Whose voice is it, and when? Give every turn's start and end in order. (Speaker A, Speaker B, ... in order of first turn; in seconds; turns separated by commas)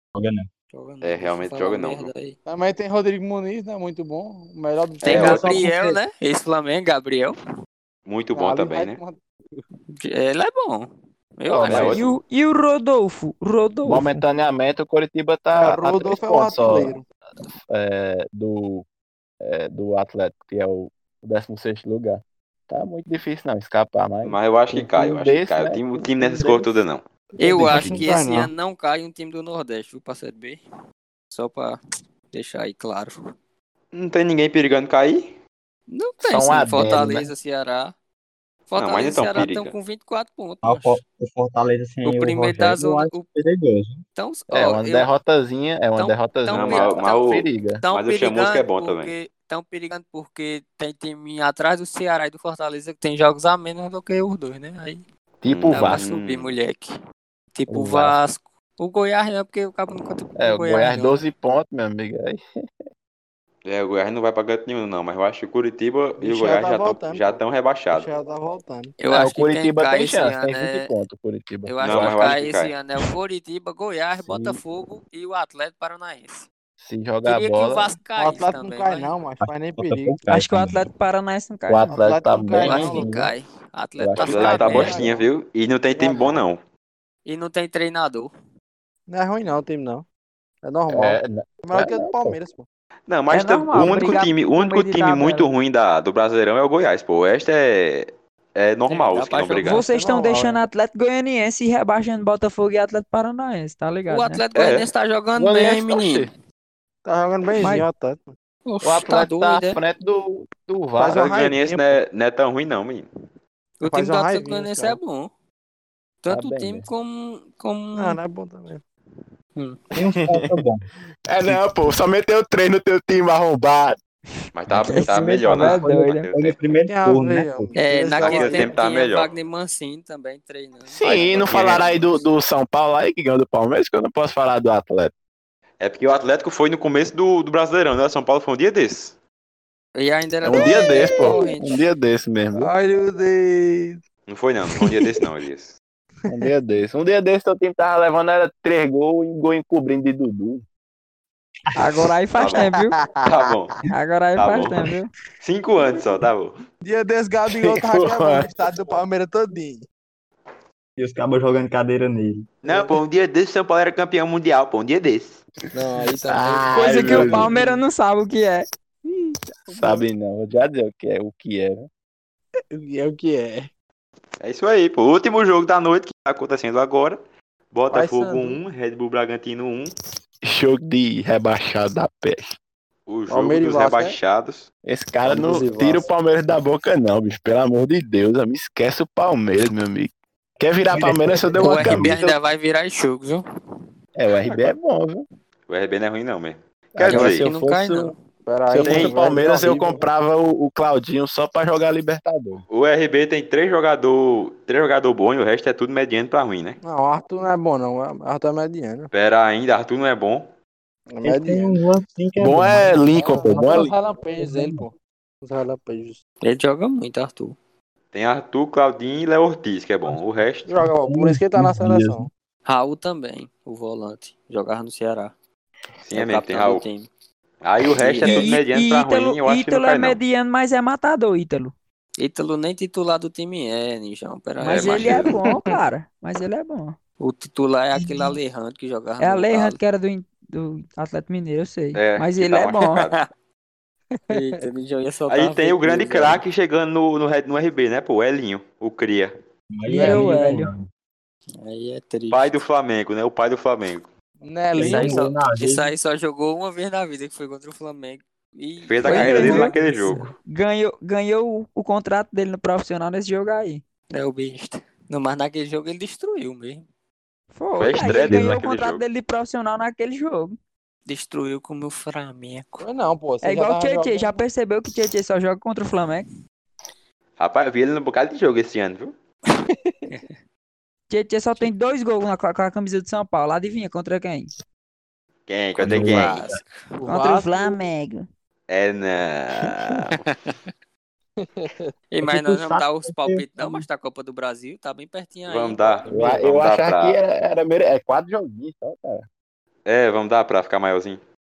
Speaker A: 0.1-0.5, Speaker B: 0.7-2.4, Speaker C: 1.0-2.1, Speaker D: 2.5-5.6, Speaker B: 5.0-7.4, Speaker C: 5.0-5.6, Speaker A: 5.4-5.9, Speaker C: 8.1-9.0, Speaker D: 8.3-9.6, Speaker B: 9.9-12.0, Speaker E: 11.5-12.0, Speaker C: 11.6-12.1, Speaker F: 11.8-14.2, Speaker E: 13.8-17.0, Speaker D: 15.6-17.0, Speaker E: 17.7-18.9, Speaker E: 19.4-26.7, Speaker C: 24.2-27.1, Speaker D: 27.4-28.5, Speaker B: 27.4-30.6, Speaker B: 31.3-31.8, Speaker B: 32.3-33.1, Speaker C: 33.9-35.4, Speaker B: 35.9-37.9, Speaker E: 36.2-37.3, Speaker B: 38.7-41.0, Speaker C: 38.8-39.8, Speaker A: 40.6-44.0, Speaker B: 42.0-43.4, Speaker B: 44.1-45.1, Speaker E: 44.5-47.8, Speaker B: 46.0-55.0, Speaker C: 46.5-49.1, Speaker E: 55.4-56.0, Speaker C: 55.5-56.6, Speaker B: 55.7-56.9, Speaker B: 57.5-61.2, Speaker E: 57.7-58.2, Speaker E: 60.4-62.4, Speaker C: 63.6-68.1, Speaker D: 66.2-67.4, Speaker D: 67.9-68.9, Speaker B: 69.0-70.9, Speaker E: 69.1-72.3, Speaker B: 71.7-76.5, Speaker C: 71.8-72.8, Speaker E: 74.2-74.6, Speaker E: 76.8-77.9, Speaker B: 77.2-79.1, Speaker D: 78.2-80.2, Speaker A: 79.4-80.9, Speaker F: 80.3-81.9, Speaker E: 81.7-83.3, Speaker D: 81.9-83.1, Speaker B: 82.5-85.0, Speaker E: 84.0-85.0, Speaker C: 84.2-86.6, Speaker D: 84.4-85.3, Speaker D: 86.0-86.4, Speaker B: 87.2-88.3, Speaker D: 89.1-90.0, Speaker D: 90.6-92.7, Speaker E: 90.9-92.4, Speaker C: 93.1-99.8, Speaker F: 93.3-95.5, Speaker B: 98.9-99.9, Speaker F: 99.6-104.4, Speaker D: 99.9-100.6, Speaker B: 104.1-106.3, Speaker C: 104.5-104.9, Speaker E: 105.4-106.3, Speaker D: 107.0-108.3, Speaker B: 108.7-109.8, Speaker E: 108.8-111.2, Speaker D: 111.0-112.0, Speaker C: 111.2-113.1, Speaker B: 113.8-115.3, Speaker D: 113.8-115.0, Speaker B: 116.2-118.2, Speaker E: 116.3-116.9, Speaker D: 118.0-118.8, Speaker A: 119.9-120.8, Speaker E: 120.2-120.5, Speaker E: 121.3-124.0, Speaker C: 124.5-126.6, Speaker F: 124.7-126.3, Speaker A: 124.8-127.8, Speaker D: 126.9-128.8, Speaker B: 127.8-132.2, Speaker C: 128.1-129.3, Speaker E: 130.9-135.1, Speaker C: 131.1-131.9, Speaker C: 135.8-139.2, Speaker B: 139.9-141.8, Speaker E: 140.4-142.7, Speaker D: 140.5-141.4, Speaker D: 142.6-144.0, Speaker C: 144.3-145.8, Speaker D: 144.7-145.2, Speaker E: 146.3-150.6, Speaker F: 151.8-153.0, Speaker C: 152.4-152.7, Speaker D: 152.5-153.5, Speaker C: 153.2-153.8, Speaker F: 153.9-155.1, Speaker C: 154.4-154.8, Speaker C: 155.4-156.5, Speaker D: 156.8-159.9, Speaker E: 157.5-158.5, Speaker A: 161.0-162.5, Speaker C: 162.6-165.4, Speaker D: 162.7-163.0, Speaker D: 165.7-167.8, Speaker E: 166.2-167.5, Speaker F: 166.7-168.7, Speaker D: 169.7-170.0, Speaker E: 169.7-171.9, Speaker D: 172.7-173.7, Speaker C: 174.4-177.2, Speaker C: 177.7-179.9, Speaker D: 177.9-178.6, Speaker E: 180.4-182.6, Speaker C: 183.1-184.7, Speaker D: 183.3-184.2, Speaker E: 184.8-192.4, Speaker D: 185.2-186.1, Speaker B: 191.6-193.4, Speaker E: 194.2-195.2, Speaker C: 195.7-197.5, Speaker E: 196.9-198.1, Speaker B: 197.1-198.2, Speaker D: 198.5-200.0, Speaker E: 198.7-202.7, Speaker C: 198.8-199.2, Speaker C: 202.7-206.8, Speaker D: 206.8-209.1, Speaker C: 209.1-210.5, Speaker D: 211.1-211.8, Speaker A: 211.2-213.9, Speaker E: 212.4-213.9, Speaker D: 213.1-216.2, Speaker A: 214.4-214.8, Speaker B: 216.4-217.6, Speaker C: 218.1-220.7, Speaker D: 220.7-222.3, Speaker A: 221.0-222.3, Speaker B: 222.7-225.3, Speaker C: 226.0-226.9, Speaker B: 226.1-227.1, Speaker C: 227.6-230.2, Speaker B: 227.8-228.6, Speaker F: 228.2-231.7, Speaker B: 232.2-235.4, Speaker F: 234.6-237.0, Speaker C: 234.7-235.4, Speaker B: 237.2-239.8, Speaker F: 238.0-238.4, Speaker F: 239.2-243.0, Speaker C: 241.9-243.2, Speaker D: 244.3-244.6, Speaker B: 244.3-246.4, Speaker C: 245.3-249.3, Speaker A: 249.7-250.9, Speaker F: 249.9-250.7, Speaker D: 249.9-250.5, Speaker B: 251.6-252.5, Speaker C: 252.3-254.1, Speaker D: 254.4-255.3, Speaker A: 254.8-255.9, Speaker B: 254.8-259.7, Speaker C: 258.8-260.3, Speaker F: 259.0-263.8, Speaker A: 259.2-260.3, Speaker B: 264.1-266.8, Speaker F: 267.5-270.5, Speaker C: 267.8-269.0, Speaker A: 268.1-268.5, Speaker B: 271.1-272.9, Speaker D: 272.8-274.4, Speaker F: 273.4-276.2, Speaker C: 277.4-279.1, Speaker B: 280.1-280.4, Speaker F: 281.1-284.5, Speaker C: 285.5-286.5, Speaker A: 285.8-286.6, Speaker B: 285.9-286.8, Speaker D: 287.0-287.8, Speaker F: 287.1-288.2, Speaker C: 288.7-290.2, Speaker D: 291.4-291.9, Speaker B: 292.1-296.2, Speaker A: 292.2-293.9, Speaker C: 295.5-297.2, Speaker D: 296.1-296.4, Speaker E: 296.1-299.3, Speaker C: 299.9-301.2